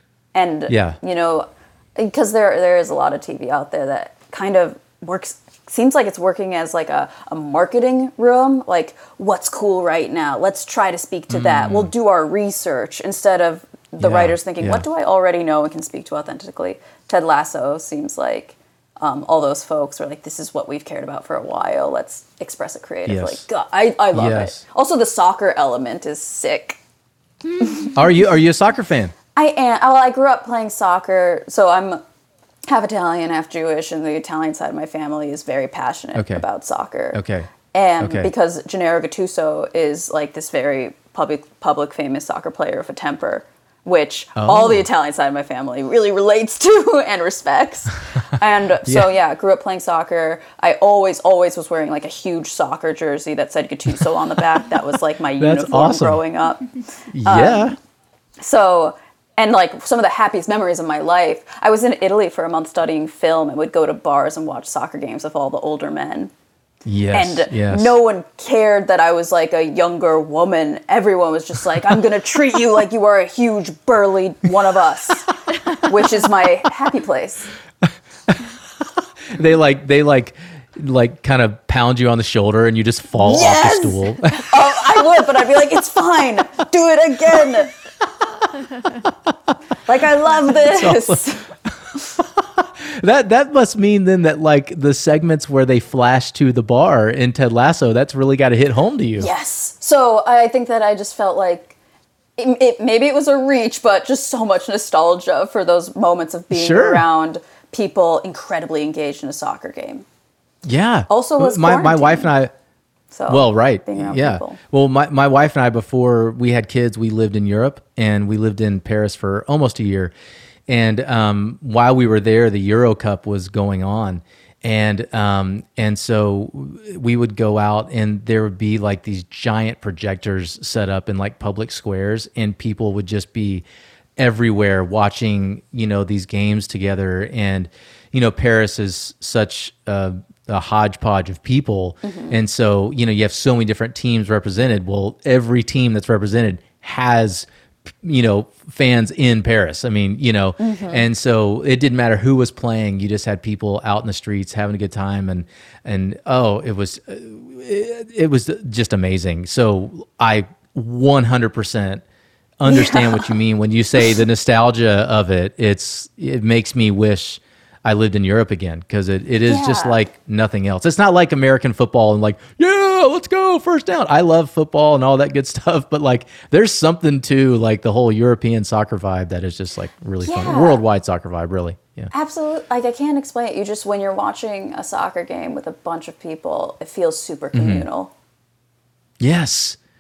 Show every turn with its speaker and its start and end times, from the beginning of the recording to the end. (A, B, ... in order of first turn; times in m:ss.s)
0:00.3-0:26.8 A
0:00.7-0:01.0 B
0:11.3-0:11.9 B
0:14.0-0:14.8 B
0:23.0-0:23.4 B
0:24.1-0:24.6 B
0:27.9-0:29.1 B
0:29.3-0:32.0 A
0:32.6-0:56.7 A
0:36.1-0:36.4 B
0:37.1-0:37.5 B
0:38.0-0:38.3 B
0:44.4-0:44.8 B
0:55.4-0:56.2 B
0:57.1-0:57.8 B
0:57.2-0:57.8 A
0:58.4-1:06.3 A
1:06.8-1:08.0 B
1:07.1-1:17.5 A
1:17.8-1:18.5 B
1:19.3-1:24.5 B
1:23.2-1:27.8 A
1:29.9-1:31.4 A
1:30.5-1:31.2 B
1:32.2-1:39.3 B
1:39.2-1:41.8 A
1:42.4-1:50.0 A
1:46.5-1:47.0 B
1:50.6-1:52.5 B
1:51.1-1:52.3 A
1:53.1-1:54.6 A
1:53.3-2:00.1 B
2:00.7-2:13.6 B
2:14.2-2:27.5 B
2:22.0-2:22.4 A
2:28.0-2:42.0 B
2:30.6-2:31.1 A
2:42.6-3:02.1 B
2:42.6-2:43.3 A
2:49.5-2:50.0 A
3:00.2-3:00.8 A
3:02.1-3:08.1 A
3:07.5-3:07.8 B
3:09.2-3:09.8 B